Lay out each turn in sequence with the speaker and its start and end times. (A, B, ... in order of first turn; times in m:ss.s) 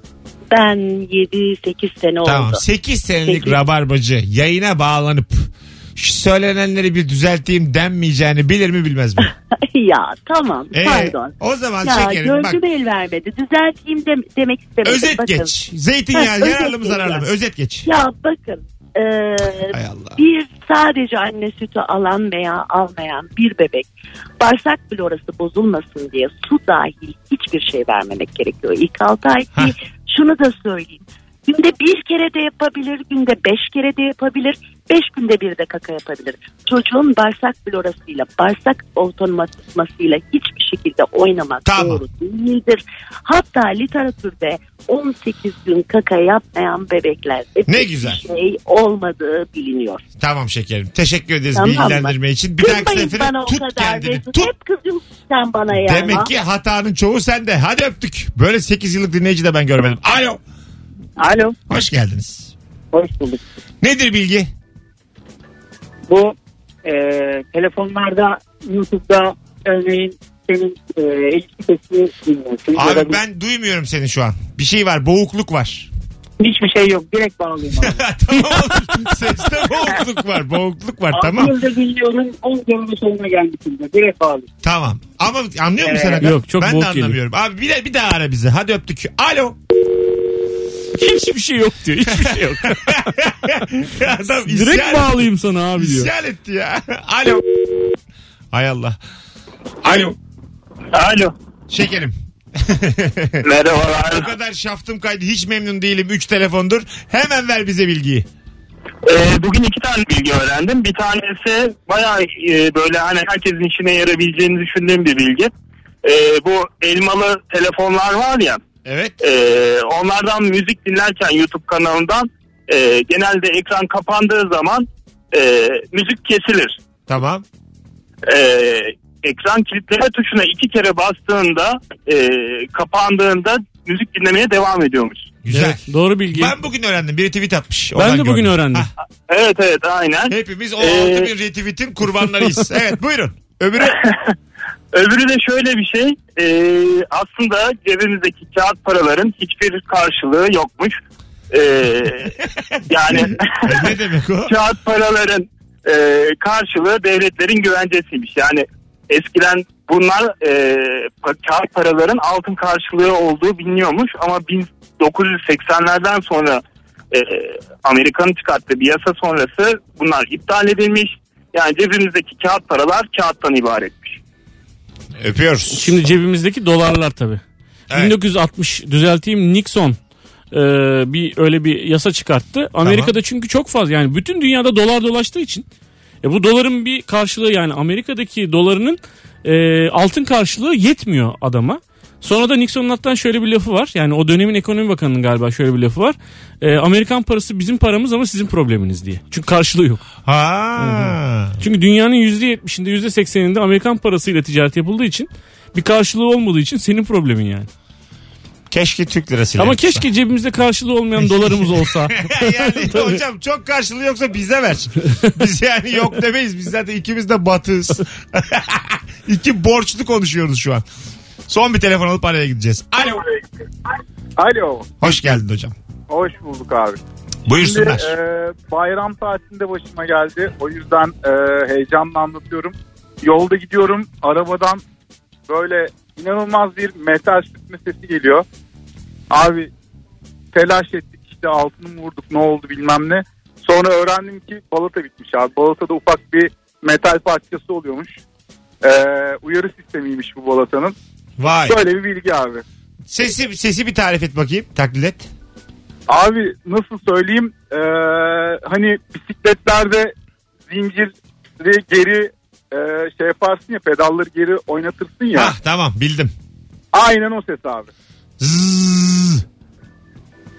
0:00.5-0:02.6 A
0:02.2-0:09.3 B
0:03.2-0:03.6 A
0:09.2-0:15.5 A
0:10.7-0:12.6 B
0:14.8-0:17.9 B
0:16.1-0:17.2 A
0:17.9-0:23.9 A
0:19.7-0:20.2 B
0:24.4-0:50.0 A
0:41.6-0:42.0 B
0:47.7-0:48.2 B
0:50.2-0:54.5 B
0:51.6-0:56.3 A
0:55.7-1:00.4 B
1:01.2-1:01.6 C
1:01.7-1:02.5 B
1:02.9-1:03.4 C
1:03.8-1:04.5 B
1:06.1-1:13.2 C
1:12.8-1:15.9 B
1:16.4-1:18.0 C
1:17.8-1:21.6 B
1:21.1-1:24.5 C
1:24.6-1:29.6 B
1:25.8-1:26.2 C
1:26.2-1:27.2 D
1:31.0-1:32.9 D
1:32.1-1:37.4 B
1:34.4-1:36.1 D
1:38.5-1:39.0 B
1:39.8-1:40.2 B
1:40.9-1:41.3 E
1:41.7-1:43.4 B
1:43.4-1:44.3 E
1:44.0-1:48.3 B
1:49.1-1:55.5 E
1:56.0-1:58.6 E
1:58.8-1:59.2 B
1:59.2-2:06.8 E
2:07.1-2:07.4 B
2:08.3-2:15.4 E
2:15.4-2:18.9 B
2:15.5-2:16.6 D
2:18.0-2:18.9 D
2:19.3-2:21.3 E
2:20.3-2:24.0 B
2:23.8-2:24.3 E
2:24.9-2:31.0 E
2:31.5-2:32.4 E
2:32.9-2:34.0 E
2:33.1-2:34.6 B
2:34.5-2:54.2 E
2:55.2-2:56.0 B
2:55.7-2:57.4 D
2:57.9-2:58.2 B
2:57.9-3:00.0 D
3:00.5-3:05.6 D
3:02.8-3:03.1 B
3:06.2-3:20.0 D
3:20.3-3:21.6 B
3:20.8-3:27.7 D
3:28.7-3:30.1 B
3:29.6-3:33.2 D
3:31.2-3:40.8 B
3:41.5-3:43.3 B
3:44.4-3:44.9 F
3:45.0-3:45.8 B
3:46.1-3:47.0 F
3:47.5-3:48.1 B
3:47.5-3:54.8 F
3:55.5-3:58.4 F
3:59.3-3:59.7 F
4:00.5-4:08.2 F
4:08.8-4:11.0 F
4:11.4-4:11.8 B
4:11.7-4:12.6 F
4:13.1-4:15.3 B
4:16.1-4:20.1 F
4:20.7-4:25.5 F
4:25.3-4:26.3 B
4:26.9-4:27.9 F
4:28.4-4:29.4 B